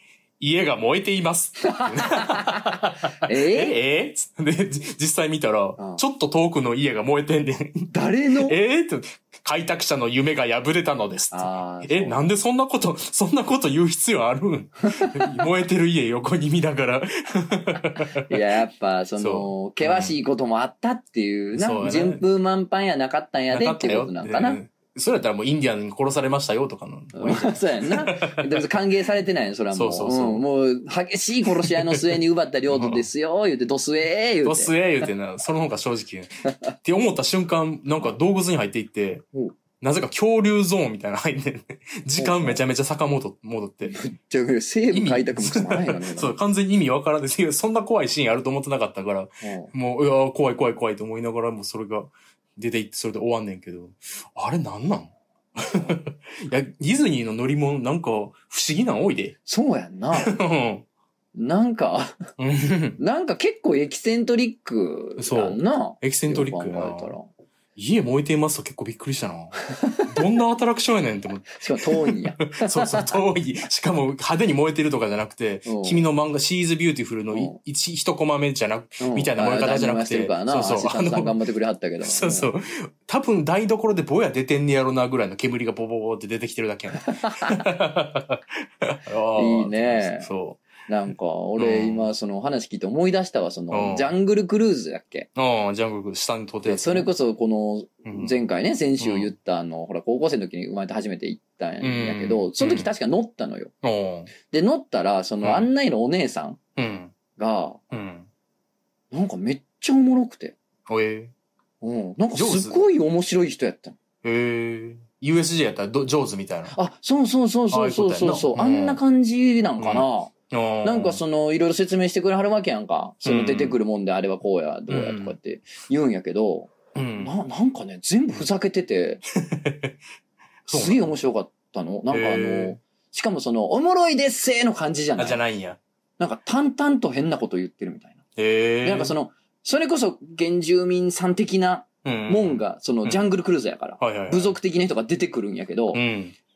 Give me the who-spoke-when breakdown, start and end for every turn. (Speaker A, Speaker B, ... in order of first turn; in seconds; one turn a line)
Speaker A: 0.4-18.2
Speaker B: 1.6-3.8
Speaker B: 7.9-8.6
Speaker B: 11.3-12.2
Speaker B: 14.9-15.4
Speaker B: 17.9-24.6
Speaker A: 19.2-20.1
Speaker A: 21.5-22.2
Speaker A: 23.5-28.7
Speaker B: 27.1-35.1
Speaker A: 29.7-30.4
Speaker A: 31.4-33.0
Speaker A: 34.4-39.2
Speaker A: 39.8-44.0
Speaker B: 42.2-42.6
Speaker B: 43.9-46.4
Speaker A: 44.9-59.4
Speaker B: 49.4-49.7
Speaker B: 59.5-60.3
Speaker A: 60.1-60.8
Speaker B: 61.3-62.2
Speaker A: 62.4-63.0
Speaker B: 63.0-67.3
Speaker A: 65.2-67.1
Speaker A: 67.8-81.3
Speaker B: 69.8-70.2
Speaker B: 71.5-73.2
Speaker B: 75.7-76.0
Speaker B: 77.3-77.6
Speaker B: 79.0-82.5
Speaker A: 82.0-90.6
Speaker B: 87.1-87.6
Speaker B: 89.3-90.3
Speaker B: 90.8-95.3
Speaker A: 91.6-92.1
Speaker A: 93.7-94.1
Speaker A: 95.3-97.1
Speaker B: 96.7-103.7
Speaker A: 98.1-98.3
Speaker A: 99.0-99.3
Speaker A: 101.8-102.9
Speaker A: 103.8-104.3
Speaker B: 104.4-106.6
Speaker A: 105.4-105.7
Speaker A: 106.8-107.1
Speaker B: 107.3-107.8
Speaker A: 107.9-108.3
Speaker B: 109.1-110.5
Speaker A: 110.9-111.3
Speaker B: 111.8-114.0
Speaker A: 112.3-112.8
Speaker A: 114.2-116.8
Speaker B: 116.7-129.2
Speaker A: 117.7-119.0
Speaker A: 119.8-121.2
Speaker A: 123.2-123.8
Speaker A: 124.9-125.3
Speaker A: 126.9-127.3
Speaker A: 129.4-129.9
Speaker A: 130.7-131.1
Speaker B: 130.7-135.4
Speaker A: 132.1-132.8
Speaker A: 135.2-135.8
Speaker B: 136.2-138.2
Speaker A: 138.3-139.1
Speaker B: 138.8-146.0
Speaker A: 142.0-143.2
Speaker A: 144.0-144.6
Speaker A: 145.9-146.3